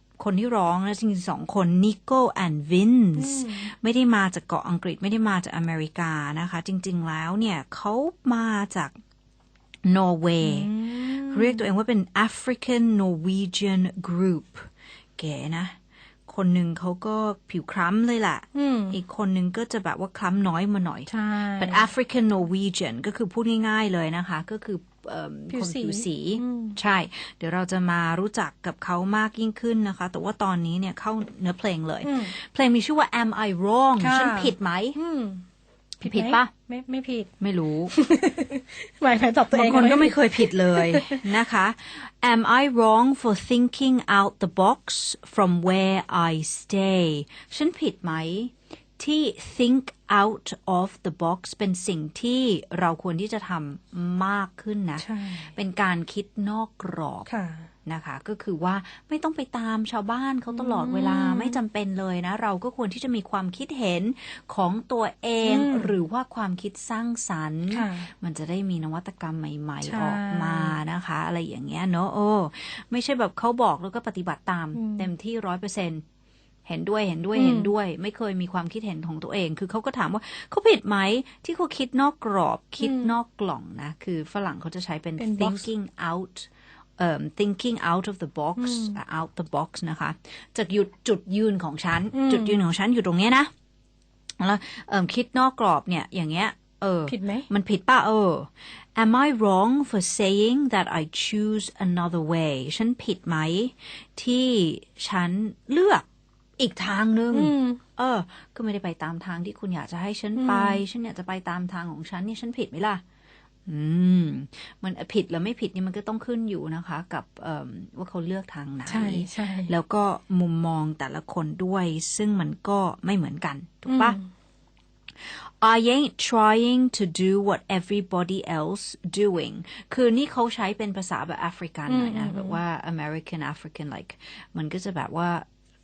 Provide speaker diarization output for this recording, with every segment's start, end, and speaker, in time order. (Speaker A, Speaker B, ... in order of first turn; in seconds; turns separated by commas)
Speaker A: 0.2-9.0, Speaker B: 3.1-3.7, Speaker A: 9.8-35.0, Speaker B: 10.4-11.6, Speaker B: 18.5-19.0, Speaker B: 21.1-21.9, Speaker B: 25.5-26.8, Speaker B: 32.0-32.3, Speaker B: 34.0-35.4, Speaker B: 36.0-37.3, Speaker A: 36.0-36.5, Speaker A: 37.4-37.9, Speaker B: 37.9-41.2, Speaker A: 39.5-57.3, Speaker B: 55.0-55.5, Speaker B: 57.3-57.7, Speaker A: 57.9-76.0, Speaker B: 60.5-61.6, Speaker B: 65.4-65.9, Speaker B: 67.7-68.1, Speaker B: 69.8-70.8, Speaker B: 74.7-75.1, Speaker A: 76.7-93.5, Speaker B: 77.3-77.7, Speaker B: 82.8-83.1, Speaker B: 85.2-85.7, Speaker B: 88.6-89.0, Speaker B: 92.1-92.6, Speaker A: 94.4-106.0, Speaker B: 97.1-97.5, Speaker A: 106.6-113.0, Speaker B: 107.3-107.8, Speaker B: 110.3-110.8, Speaker A: 113.7-124.2, Speaker B: 118.9-119.7, Speaker B: 123.8-124.3, Speaker A: 125.2-135.4, Speaker B: 131.9-132.6